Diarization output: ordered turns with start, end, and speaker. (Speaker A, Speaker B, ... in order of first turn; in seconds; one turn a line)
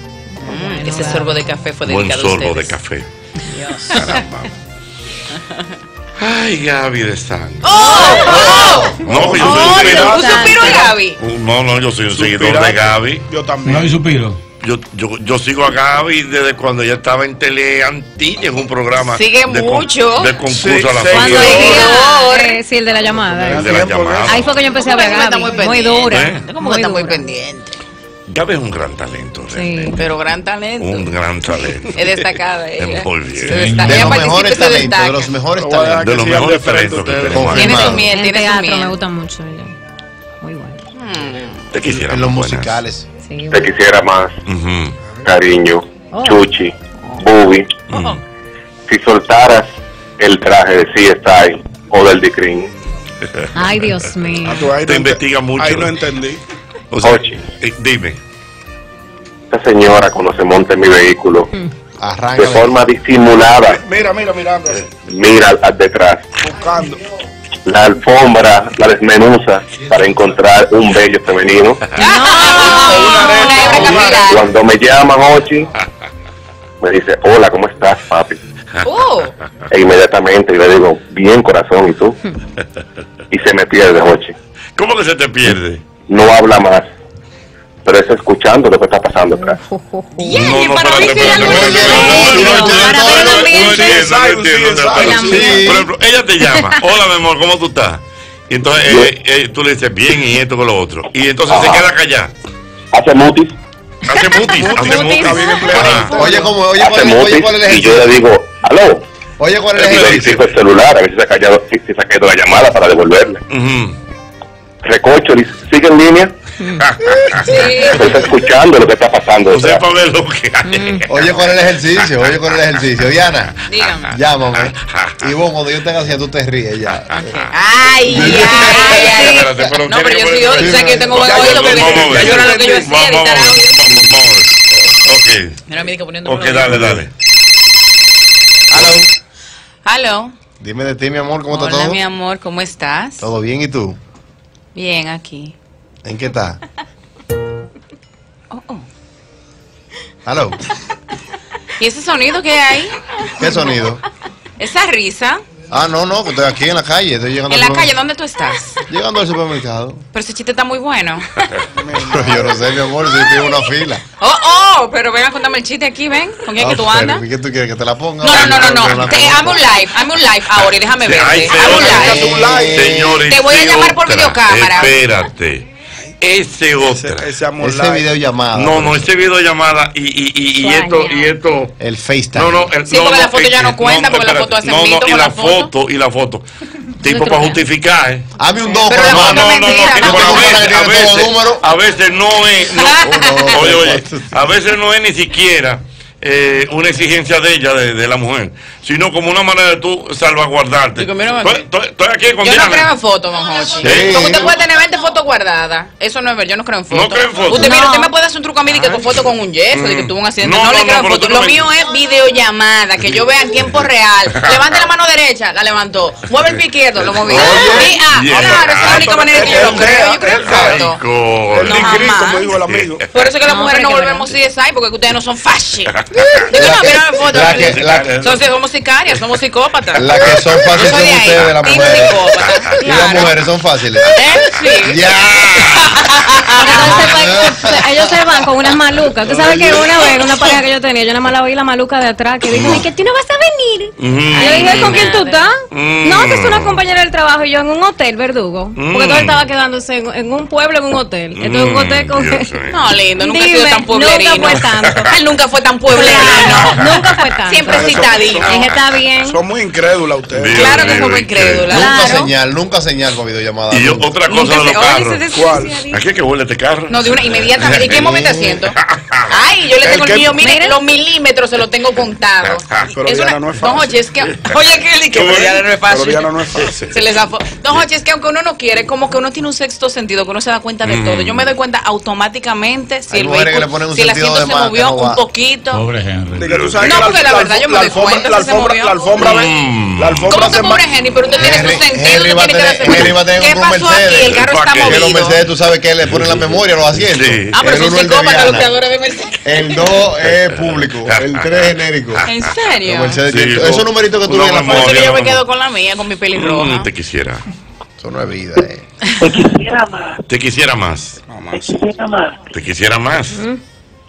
Speaker A: 0.4-1.5
Speaker B: 0.4-2.8
Speaker C: 1.8-3.1
Speaker A: 3.5-4.2
Speaker C: 3.9-4.5
Speaker C: 6.2-7.8
Speaker B: 7.6-11.2
Speaker A: 7.7-8.8
Speaker D: 8.2-9.0
Speaker C: 9.0-10.2
Speaker E: 9.0-10.9
Speaker A: 9.6-10.8
Speaker C: 11.2-13.2
Speaker E: 12.1-14.0
Speaker F: 13.6-14.4
Speaker C: 14.6-21.8
Speaker B: 19.1-20.4
Speaker E: 20.4-21.9
Speaker A: 21.1-27.2
Speaker B: 21.2-22.6
Speaker E: 23.4-24.6
Speaker C: 23.4-24.6
Speaker B: 24.7-27.8
Speaker C: 26.1-26.4
Speaker C: 28.3-30.0
Speaker A: 29.5-30.0
Speaker B: 29.9-35.3
Speaker C: 30.8-32.0
Speaker C: 32.8-33.6
Speaker F: 33.5-34.3
Speaker D: 33.8-36.2
Speaker E: 35.6-37.6
Speaker C: 36.0-37.9
Speaker D: 37.3-38.0
Speaker B: 37.5-39.0
Speaker A: 37.7-39.7
Speaker A: 40.4-40.8
Speaker B: 41.0-41.6
Speaker C: 41.7-42.8
Speaker D: 41.8-43.1
Speaker A: 43.2-43.7
Speaker G: 43.5-44.3
Speaker C: 44.5-45.0
Speaker G: 45.2-47.7
Speaker A: 46.1-46.5
Speaker C: 47.9-48.2
Speaker G: 48.9-52.7
Speaker C: 53.2-53.5
Speaker A: 53.5-54.7
Speaker E: 54.4-56.4
Speaker C: 54.9-55.9
Speaker C: 56.9-58.2
Speaker G: 57.0-57.4
Speaker G: 59.5-61.5
Speaker D: 62.0-62.8
Speaker G: 62.4-63.8
Speaker E: 63.6-64.9
Speaker G: 65.0-66.2
Speaker E: 66.4-67.0
Speaker G: 67.7-71.9
Speaker A: 72.0-74.0
Speaker B: 72.0-74.5
Speaker E: 72.5-74.4
Speaker G: 74.3-75.7
Speaker G: 76.8-78.4
Speaker B: 78.8-79.3
Speaker G: 79.7-82.2
Speaker G: 83.3-84.3
Speaker C: 84.8-85.8
Speaker G: 86.1-86.9
Speaker G: 87.8-89.6
Speaker A: 89.3-90.4
Speaker B: 90.2-92.4
Speaker C: 90.3-102.3
Speaker A: 91.0-94.0
Speaker D: 91.3-93.6
Speaker E: 93.5-95.5
Speaker A: 95.0-95.7
Speaker D: 95.2-95.9
Speaker G: 101.5-101.9
Speaker G: 102.9-103.5
Speaker C: 104.1-106.1
Speaker A: 104.1-106.7
Speaker E: 104.6-106.4
Speaker D: 106.1-108.2
Speaker G: 106.8-109.0
Speaker D: 109.4-110.5
Speaker C: 109.8-110.5
Speaker G: 109.8-113.4
Speaker C: 113.5-114.0
Speaker G: 114.8-116.3
Speaker A: 116.6-116.9
Speaker C: 116.8-117.6
Speaker B: 117.4-118.2
Speaker G: 117.9-119.8
Speaker C: 119.5-121.3
Speaker A: 120.7-121.0
Speaker D: 121.1-127.3
Speaker B: 123.7-124.1
Speaker C: 124.6-125.2
Speaker C: 127.0-127.5
Speaker B: 127.2-133.8
Speaker D: 128.1-128.9
Speaker C: 128.3-135.6
Speaker A: 128.9-129.5
Speaker D: 130.6-131.2
Speaker E: 131.1-132.9
Speaker B: 135.7-136.9
Speaker C: 136.2-137.1
Speaker D: 136.7-137.0
Speaker D: 138.7-139.0
Speaker B: 139.8-140.3
Speaker D: 140.6-142.0
Speaker B: 141.5-143.2
Speaker D: 143.2-144.0
Speaker B: 144.7-145.5
Speaker D: 146.0-146.6
Speaker B: 148.5-148.8
Speaker D: 150.2-150.6
Speaker B: 151.8-153.5
Speaker D: 153.4-154.0
Speaker B: 154.6-155.4
Speaker D: 155.7-157.9
Speaker B: 157.5-158.8
Speaker D: 158.9-160.0
Speaker B: 160.1-161.5
Speaker E: 161.7-162.5
Speaker D: 162.0-164.0
Speaker B: 164.2-167.2
Speaker D: 166.6-169.7
Speaker B: 168.2-172.2
Speaker C: 168.3-169.3
Speaker C: 171.0-175.7
Speaker E: 171.5-172.9
Speaker D: 171.9-173.3
Speaker B: 173.3-174.9
Speaker C: 176.2-177.3
Speaker E: 176.8-178.1
Speaker D: 177.6-179.0
Speaker C: 178.5-181.7
Speaker A: 180.6-181.3
Speaker D: 181.8-182.7
Speaker C: 182.3-186.4
Speaker B: 182.9-185.7
Speaker C: 187.0-188.2
Speaker A: 187.1-187.5
Speaker D: 188.4-191.6
Speaker B: 188.9-190.6
Speaker C: 189.0-202.9
Speaker B: 192.8-193.5
Speaker D: 193.0-194.3
Speaker B: 201.0-201.6
Speaker B: 202.4-221.0
Speaker D: 203.8-204.5
Speaker C: 203.8-204.3
Speaker C: 206.9-207.8
Speaker A: 207.5-208.1
Speaker C: 208.7-209.0
Speaker C: 209.7-211.6
Speaker C: 213.0-213.8
Speaker C: 217.1-222.0
Speaker D: 217.2-217.9
Speaker E: 218.3-220.9
Speaker E: 221.5-223.0
Speaker B: 221.6-222.5
Speaker C: 222.6-222.9
Speaker B: 223.1-230.1
Speaker A: 223.4-224.3
Speaker C: 226.1-226.4
Speaker D: 226.5-228.2
Speaker C: 227.3-228.4
Speaker D: 229.9-232.2
Speaker C: 230.1-230.7
Speaker B: 230.7-233.3
Speaker D: 232.8-234.2
Speaker B: 234.1-237.1
Speaker D: 234.8-235.9
Speaker A: 236.6-252.5
Speaker D: 236.7-237.7
Speaker D: 239.2-239.8
Speaker C: 242.5-242.8
Speaker C: 244.0-245.2
Speaker B: 244.3-245.5
Speaker C: 245.7-246.8
Speaker C: 248.7-249.5
Speaker C: 251.3-252.8
Speaker B: 252.7-258.5
Speaker A: 253.2-255.1
Speaker C: 254.8-255.1
Speaker A: 255.9-259.4
Speaker C: 256.0-256.9
Speaker E: 257.7-258.5
Speaker E: 259.2-260.9
Speaker C: 260.3-261.7
Speaker B: 260.5-262.3
Speaker D: 261.7-264.1
Speaker A: 261.7-262.1
Speaker C: 263.7-265.2
Speaker B: 264.3-266.0
Speaker E: 265.3-265.8
Speaker C: 265.9-268.1
Speaker B: 266.9-268.8
Speaker D: 267.9-268.6
Speaker C: 268.8-269.3
Speaker B: 269.3-276.3
Speaker E: 269.8-270.4
Speaker A: 270.4-270.8
Speaker E: 272.9-274.0
Speaker C: 275.1-275.6
Speaker E: 275.8-276.9
Speaker C: 276.6-276.9
Speaker B: 276.9-285.8
Speaker C: 280.8-281.5
Speaker D: 283.1-285.2
Speaker F: 285.7-286.7
Speaker E: 286.3-290.9
Speaker C: 286.5-287.0
Speaker B: 286.8-289.0
Speaker C: 289.2-290.4
Speaker B: 290.2-295.4
Speaker D: 291.4-298.7
Speaker C: 294.3-295.1
Speaker C: 296.0-297.6
Speaker B: 297.5-299.9
Speaker D: 299.4-302.2
Speaker C: 300.2-302.3
Speaker B: 302.2-303.2
Speaker D: 302.8-305.0
Speaker C: 303.3-305.4
Speaker B: 304.6-306.9
Speaker C: 306.4-307.4
Speaker D: 308.0-308.8
Speaker H: 309.2-310.2
Speaker C: 310.3-311.2
Speaker E: 311.3-311.8
Speaker H: 311.5-312.4
Speaker C: 312.5-313.4
Speaker A: 313.3-313.6